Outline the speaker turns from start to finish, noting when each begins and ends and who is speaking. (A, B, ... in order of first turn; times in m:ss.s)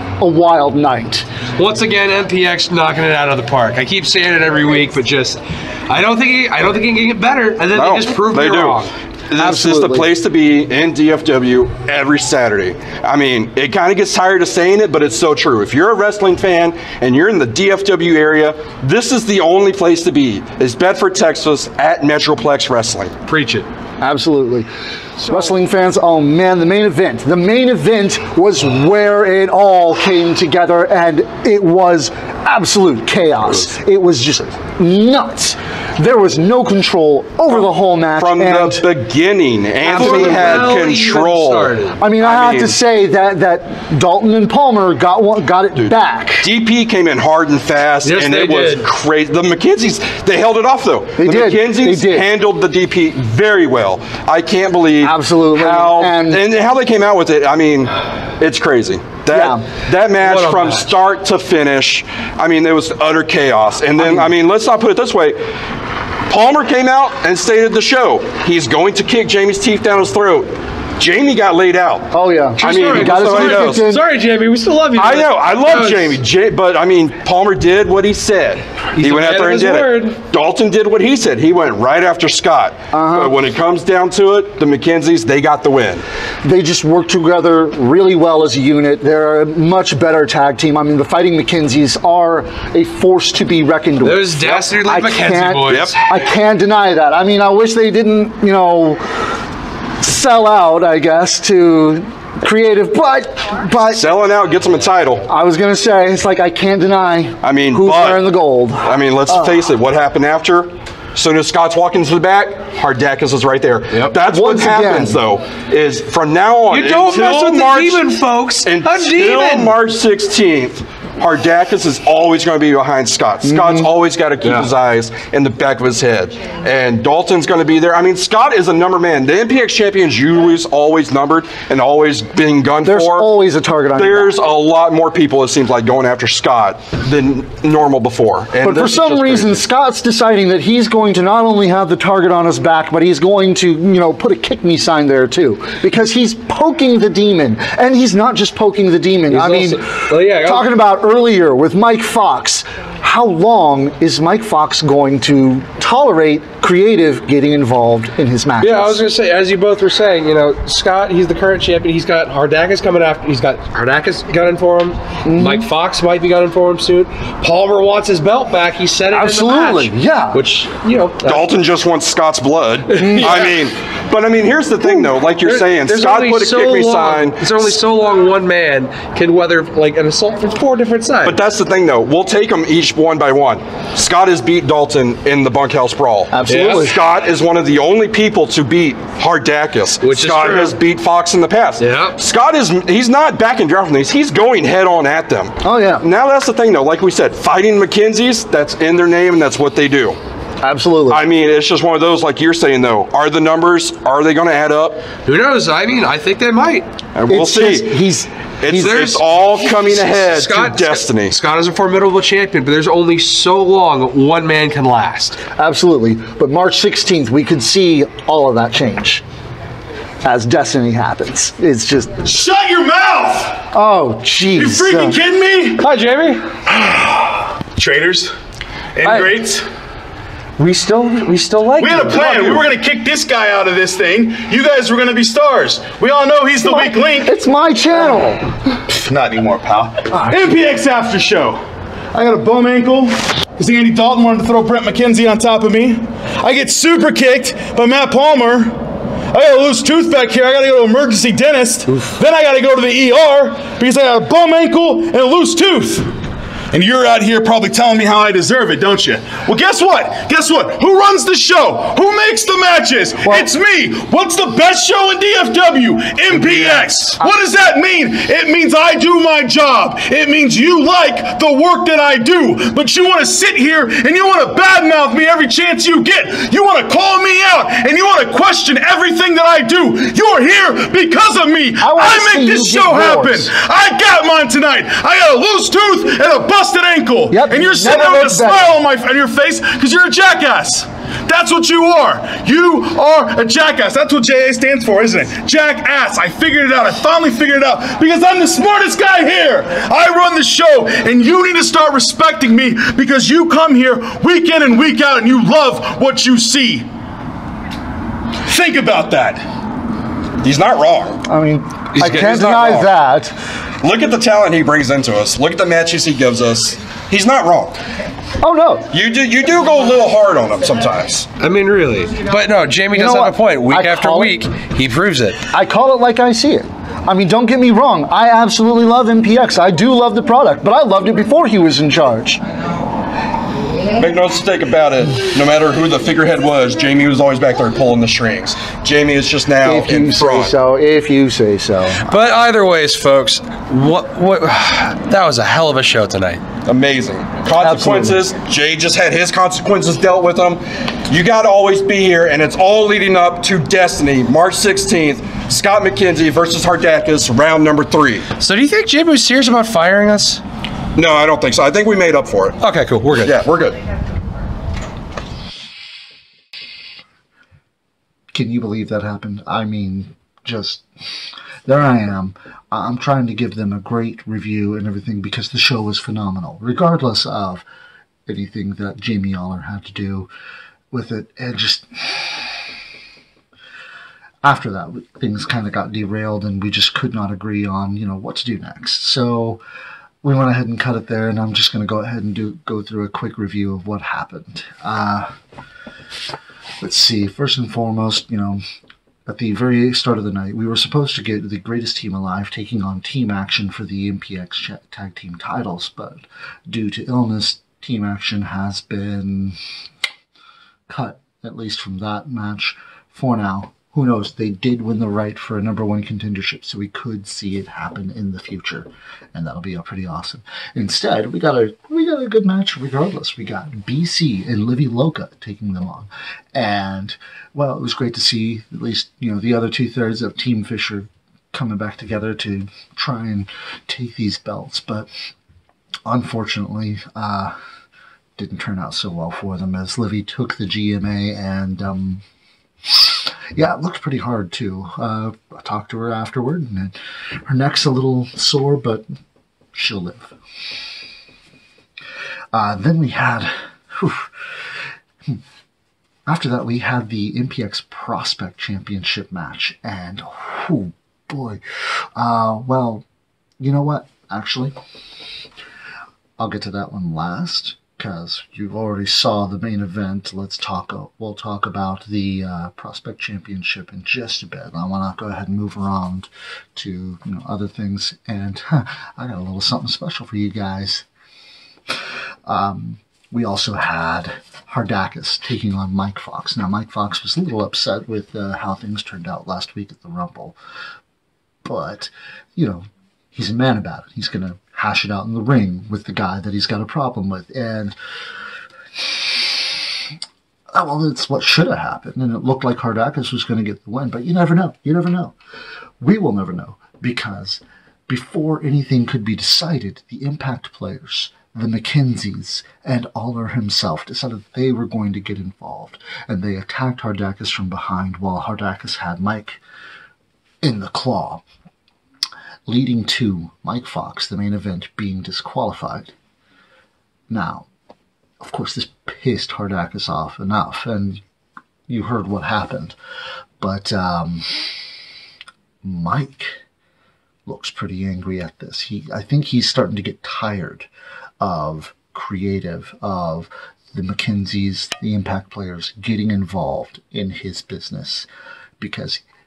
0:00.2-0:01.3 A
0:01.6-0:08.9 B
0:07.8-0:23.2 C
0:09.4-0:10.1 A
0:23.3-0:23.7 B
0:24.0-0:38.9 A
0:38.2-0:42.8 C
0:39.8-0:42.0 B
0:39.9-0:40.8 A
0:42.0-0:46.5 A
0:45.8-1:05.4 C
0:48.0-0:48.9 B
0:51.2-0:52.3 A
0:55.0-0:56.4 A
0:59.3-0:59.7 A
1:00.2-1:00.9 B
1:04.0-1:04.3 A
1:06.3-1:13.9 C
1:12.1-1:14.0 A
1:12.6-1:16.2 B
1:15.0-1:26.0 C
1:19.0-1:20.2 B
1:22.9-1:23.4 A
1:26.4-1:39.0 A
1:34.0-1:36.0 B
1:35.7-1:36.0 C
1:40.0-1:44.1 A
1:43.9-1:45.2 C
1:45.3-1:49.6 A
1:47.4-1:48.3 C
1:48.8-1:58.1 C
1:54.2-1:55.2 A
1:56.7-1:59.8 B
1:58.6-2:13.3 C
2:03.4-2:03.9 A
2:04.4-2:04.7 B
2:12.8-2:14.4 A
2:14.0-2:19.6 C
2:18.6-2:29.8 A
2:29.3-2:30.8 B
2:30.4-2:39.0 A
2:38.6-2:51.6 B
2:45.2-2:45.7 A
2:49.1-2:50.4 A
2:51.2-2:57.7 C
2:52.9-2:53.7 B
2:53.0-2:53.5 A
2:55.4-3:01.4 B
3:01.2-3:20.2 C
3:06.3-3:07.0 A
3:06.5-3:06.9 B
3:10.0-3:10.8 B
3:11.8-3:12.2 B
3:15.6-3:16.1 A
3:20.6-3:21.2 A
3:21.1-3:25.0 C
3:25.2-3:26.9 B
3:27.2-3:27.9 C
3:27.3-3:29.2 A
3:28.6-3:31.4 C
3:28.9-3:35.4 B
3:35.6-3:39.2 A
3:40.2-3:42.3 A
3:42.2-3:43.6 D
3:43.7-3:45.2 A
3:44.6-3:45.9 D
3:45.8-3:46.5 B
3:46.7-3:48.3 D
3:49.0-3:49.7 D
3:49.0-3:49.4 B
3:50.6-3:52.4 B
3:51.8-3:57.3 D
3:56.6-3:58.5 A
3:58.9-4:01.6 D
4:02.1-4:08.8 D
4:09.3-4:16.1 D
4:16.7-5:06.9 D
4:41.8-4:43.5 A
4:47.3-4:48.7 A
5:08.4-5:09.4 D
5:10.4-5:11.2 C
5:11.2-5:13.3 A
5:12.0-5:12.6 B
5:12.2-5:12.9 C
5:13.8-5:17.8 C
5:18.4-5:18.9 A
5:18.9-5:21.3 C
5:21.4-5:25.4 B
5:22.9-5:24.4 A
5:25.5-5:32.4 A
5:33.9-5:40.5 C
5:39.6-5:42.1 A
5:42.0-5:46.4 B
5:46.7-5:58.3 C
5:47.6-5:48.2 A
5:58.4-6:00.4 B
6:01.0-6:02.6 C
6:02.6-6:03.4 B
6:03.2-6:03.8 C
6:08.3-6:10.9 A
6:11.6-6:17.6 A
6:18.3-6:20.3 A
6:20.9-6:22.6 A
6:24.4-6:29.6 A
6:30.2-6:35.3 A
6:36.8-6:38.6 A
6:39.3-6:49.6 A
6:50.9-7:15.1 A
7:16.1-7:17.6 A
7:18.4-7:22.2 A
7:23.0-7:29.1 A
7:29.7-7:30.4 A
7:32.5-7:34.3 A
7:36.3-7:41.6 A
7:42.2-7:43.0 A
7:43.6-7:44.7 A
7:46.4-8:01.1 A
8:02.5-8:10.6 A
8:11.6-8:18.0 A
8:19.0-8:19.8 A
8:20.7-8:25.4 A
8:26.0-8:39.6 A
8:40.6-8:41.4 A
8:42.7-8:46.1 A
8:47.3-8:47.7 A
8:48.4-8:51.2 A
8:51.9-8:53.0 A
8:53.6-8:54.8 A
8:55.8-8:56.6 A
8:57.5-9:00.9 A
9:01.4-9:08.3 A
9:08.8-9:09.2 A